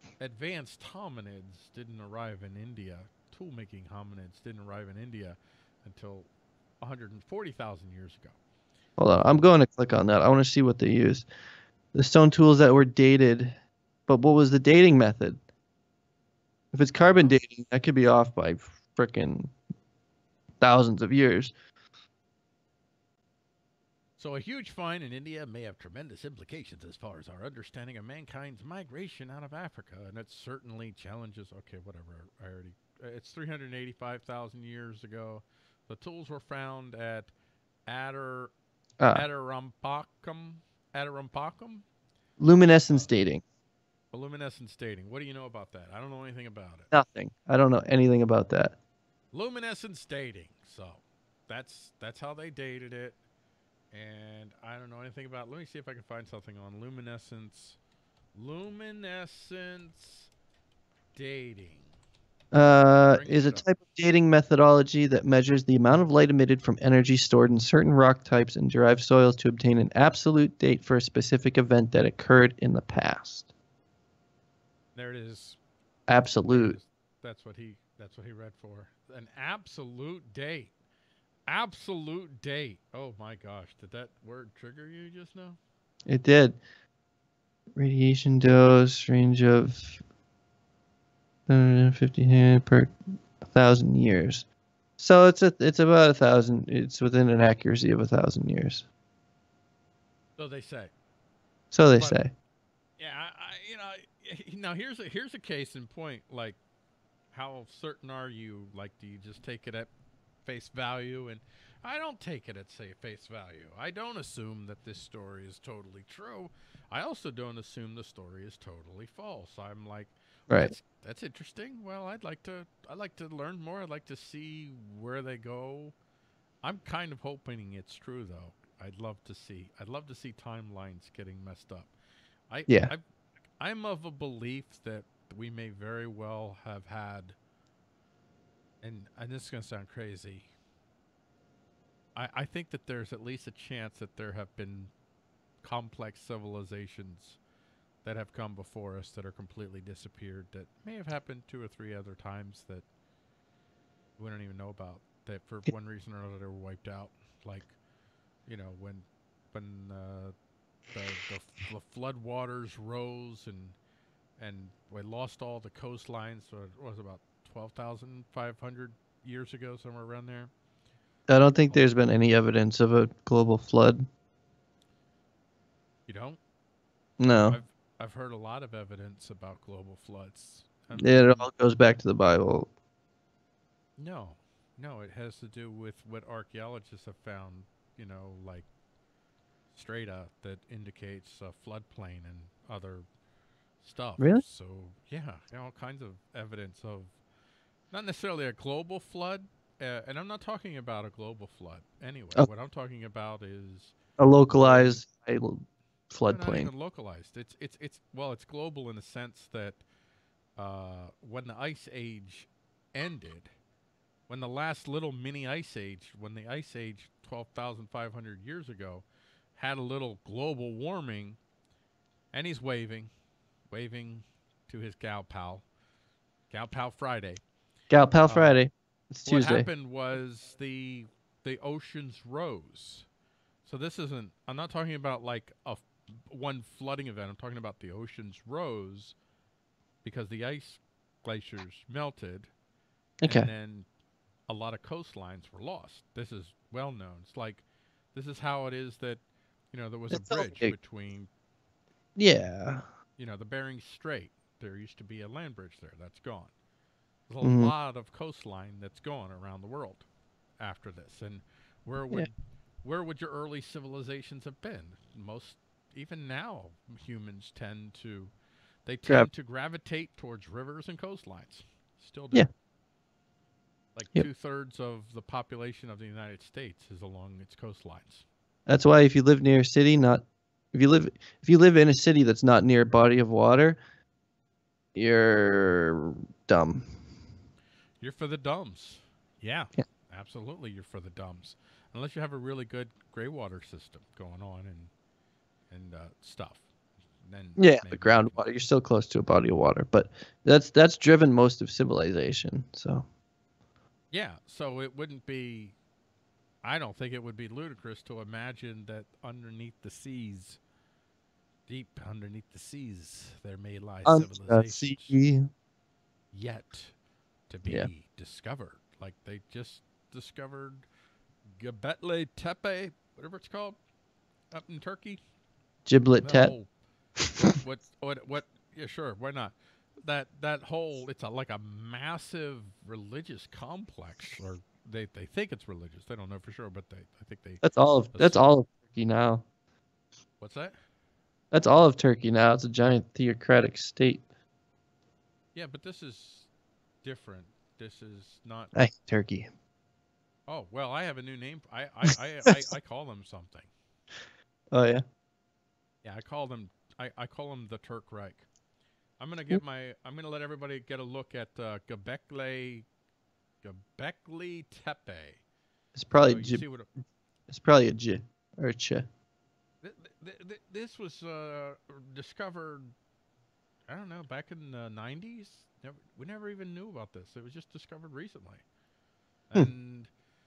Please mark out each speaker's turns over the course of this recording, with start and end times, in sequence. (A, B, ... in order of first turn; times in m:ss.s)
0:00.2-0:06.3 A
0:06.8-0:08.4 A
0:09.0-0:11.2 B
0:11.9-0:13.6 B
0:14.1-0:15.4 B
0:16.7-0:19.5 B
0:17.0-0:17.4 A
0:20.6-0:21.5 B
0:24.2-0:37.3 A
0:37.9-0:38.5 A
0:39.0-0:39.2 B
0:39.1-0:41.9 A
0:42.4-0:43.4 B
0:44.1-0:46.9 A
0:46.9-0:48.8 B
0:49.3-0:53.2 A
0:53.9-0:57.8 A
0:58.4-1:00.3 A
1:01.1-1:01.9 A
1:02.5-1:13.5 B
1:03.1-1:03.6 A
1:14.9-1:15.6 A
1:16.1-1:16.8 B
1:16.5-1:20.7 A
1:21.5-1:25.6 A
1:26.1-1:26.6 B
1:27.7-1:30.0 B
1:31.5-1:32.9 B
1:33.5-1:34.4 B
1:35.0-1:38.8 B
1:40.4-1:40.9 A
1:41.7-1:42.3 B
1:42.0-1:42.2 A
1:43.0-1:46.6 A
1:47.3-1:49.9 A
1:50.4-2:05.9 A
2:00.5-2:00.8 B
2:06.6-2:11.9 A
2:12.5-2:13.0 A
2:13.6-2:17.4 A
2:18.8-2:20.5 A
2:22.1-2:24.9 A
2:25.6-2:27.4 A
2:28.0-2:32.8 A
2:34.2-2:37.7 A
2:38.5-2:40.3 A
2:40.9-2:43.8 A
2:44.4-2:50.5 A
2:51.3-2:54.1 B
2:56.1-2:56.4 A
2:57.2-2:57.6 B
2:57.4-3:01.5 A
3:00.9-3:02.7 B
3:04.0-3:08.7 A
3:09.7-3:13.1 A
3:13.8-3:17.1 A
3:17.9-3:23.9 A
3:24.2-3:26.7 B
3:24.6-3:25.0 A
3:26.3-3:29.8 A
3:30.6-3:33.5 A
3:34.3-3:41.4 A
3:42.3-3:43.1 A
3:43.7-3:45.6 A
3:46.5-3:47.4 A
3:47.9-3:49.7 B
3:48.3-3:48.6 A
3:49.2-3:53.1 A
3:53.6-3:59.2 A
4:00.0-4:02.5 A
4:03.2-4:03.5 B
4:03.2-4:03.9 A
4:04.5-4:11.3 A
4:10.1-4:10.8 B
4:12.2-4:12.8 B
4:13.2-4:16.5 A
4:17.3-4:20.0 A
4:17.4-4:17.7 B
4:20.6-4:28.3 A
4:28.8-4:32.5 A
4:33.9-4:38.2 A
4:38.7-4:43.8 B
4:44.9-4:46.9 B
4:48.0-4:54.9 A
4:55.7-4:56.7 A
4:57.2-4:58.5 A
4:57.6-5:03.1 B
5:04.1-5:05.8 A
5:06.6-5:10.6 A
5:11.7-5:15.2 A
5:14.0-5:15.5 B
5:16.3-5:16.9 A
5:17.5-5:20.8 A
5:21.6-5:23.8 A
5:24.5-5:25.2 A
5:25.8-5:26.5 B
5:26.2-5:26.7 A
5:27.5-5:37.6 A
5:37.6-5:39.4 B
5:38.1-5:38.4 A
5:40.4-5:40.8 A
5:41.5-5:44.2 B
5:45.5-5:46.5 A
5:47.0-5:48.8 A
5:48.7-5:49.5 B
5:50.5-5:53.7 A
5:54.7-5:55.0 B
5:56.0-5:58.5 A
5:59.2-6:02.8 A
6:03.6-6:05.4 A
6:05.9-6:06.6 B
6:06.1-6:06.9 A
6:07.5-6:09.1 B
6:09.8-6:12.9 A
6:13.9-6:18.6 A
6:19.5-6:20.1 A